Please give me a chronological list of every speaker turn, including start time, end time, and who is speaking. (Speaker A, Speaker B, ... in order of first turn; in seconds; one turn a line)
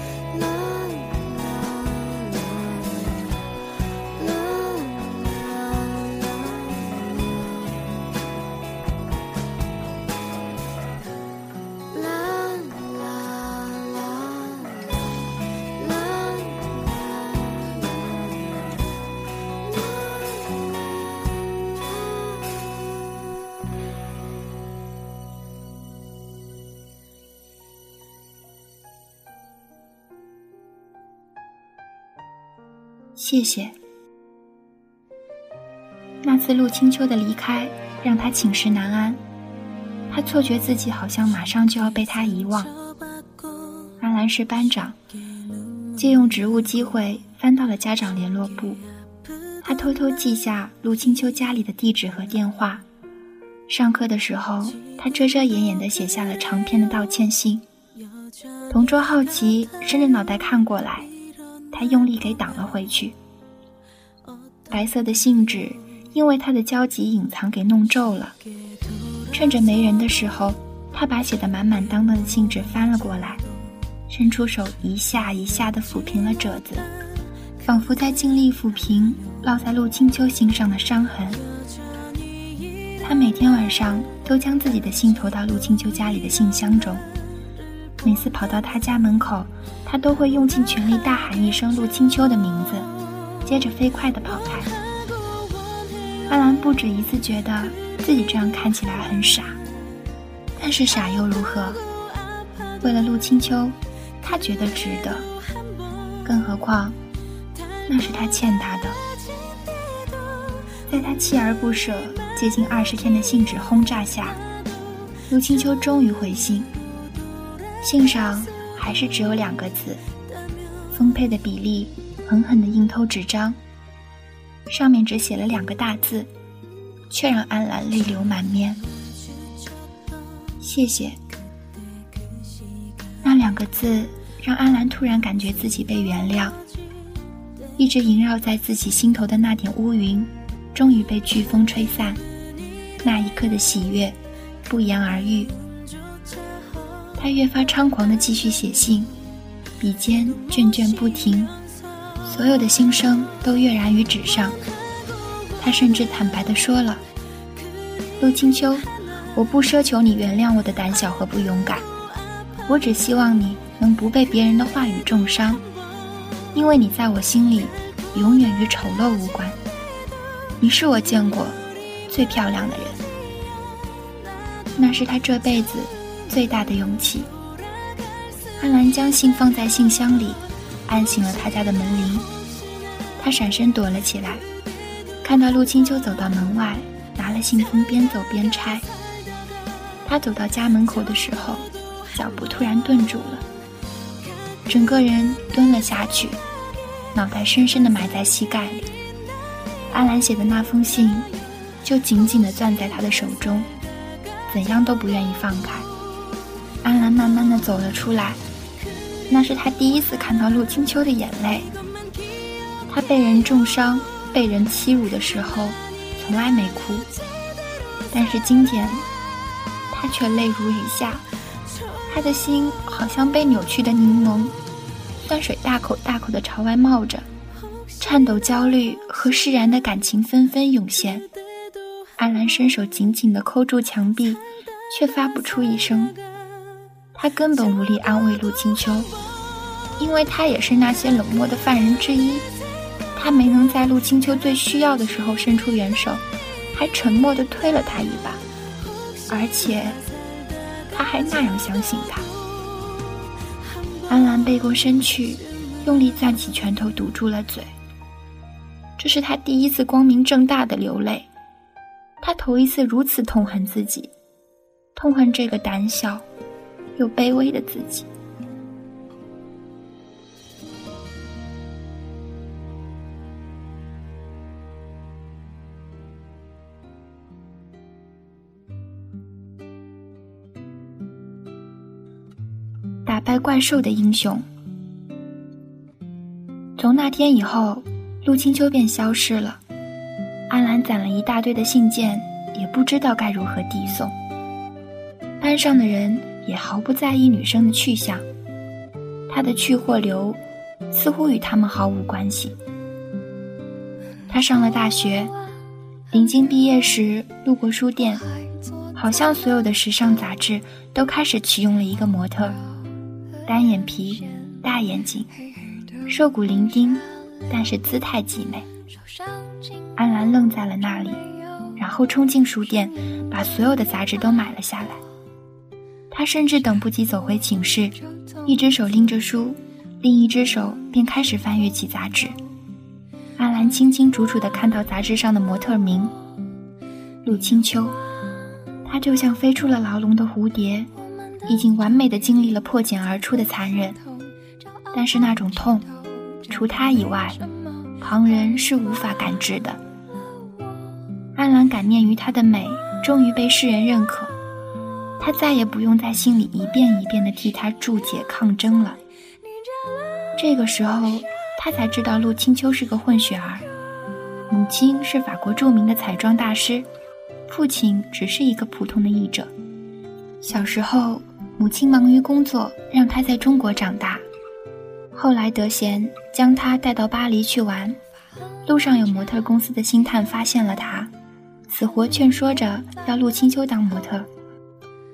Speaker A: 33.2-33.7
Speaker A: 36.2-39.2
Speaker A: 40.1-42.7
Speaker A: 44.0-45.0
Speaker A: 46.0-48.8
Speaker A: 49.6-52.8
Speaker A: 53.7-57.6
Speaker A: 58.7-61.1
Speaker A: 61.7-63.1
Speaker A: 64.7-68.3
Speaker A: 69.3-73.4
Speaker A: 74.1-76.9
Speaker A: 77.6-81.4
Speaker A: 83.0-87.0
Speaker A: 88.0-92.9
Speaker A: 93.4-94.7
Speaker A: 96.3-99.6
Speaker A: 100.6-101.8
Speaker A: 102.8-105.3
Speaker A: 106.2-107.0
Speaker A: 107.9-109.0
Speaker A: 110.9-114.4
Speaker A: 115.3-116.7
Speaker A: 117.8-120.0
Speaker A: 120.9-123.6
Speaker A: 124.7-126.3
Speaker A: 127.1-128.8
Speaker A: 130.6-131.2
Speaker A: 133.2-136.6
Speaker A: 137.8-142.2
Speaker A: 143.0-145.5
Speaker A: 147.2-149.1
Speaker A: 149.8-151.5
Speaker A: 152.2-154.6
Speaker A: 155.6-157.0
Speaker A: 158.2-161.9
Speaker A: 162.7-165.6
Speaker A: 166.5-169.6
Speaker A: 170.6-173.0
Speaker A: 174.8-177.3
Speaker A: 178.6-182.3
Speaker A: 183.2-184.4
Speaker A: 185.2-188.9
Speaker A: 190.0-193.4
Speaker A: 194.7-196.4
Speaker A: 197.1-198.9
Speaker A: 199.9-201.3
Speaker A: 201.8-203.7
Speaker A: 204.5-205.9
Speaker A: 206.8-208.4
Speaker A: 209.3-211.7
Speaker A: 212.9-217.1
Speaker A: 218.1-219.1
Speaker A: 219.9-221.2
Speaker A: 222.1-224.5
Speaker A: 225.2-227.3
Speaker A: 228.0-231.3
Speaker A: 232.2-236.2
Speaker A: 237.1-239.1
Speaker A: 240.0-242.5
Speaker A: 243.1-248.4
Speaker A: 249.3-250.0
Speaker A: 250.9-252.3
Speaker A: 254.1-257.7
Speaker A: 259.0-261.3
Speaker A: 262.2-264.1
Speaker A: 264.9-266.2
Speaker A: 267.0-268.1
Speaker A: 283.1-284.4
Speaker A: 286.8-289.6
Speaker A: 290.5-294.1
Speaker A: 295.4-298.2
Speaker A: 299.3-302.6
Speaker A: 304.3-305.3
Speaker A: 306.1-308.2
Speaker A: 308.9-312.6
Speaker A: 313.4-315.3
Speaker A: 316.1-318.7
Speaker A: 320.0-321.2
Speaker A: 321.8-325.0
Speaker A: 326.1-332.4
Speaker A: 333.4-336.1
Speaker A: 337.2-338.0
Speaker A: 338.8-340.9
Speaker A: 341.5-344.0
Speaker A: 344.9-345.9
Speaker A: 346.5-347.4
Speaker A: 348.0-349.8
Speaker A: 351.3-354.3
Speaker A: 355.2-359.0
Speaker A: 360.4-363.7
Speaker A: 364.5-366.9
Speaker A: 367.5-369.5
Speaker A: 370.4-374.2
Speaker A: 375.1-378.0
Speaker A: 378.6-381.1
Speaker A: 381.7-384.3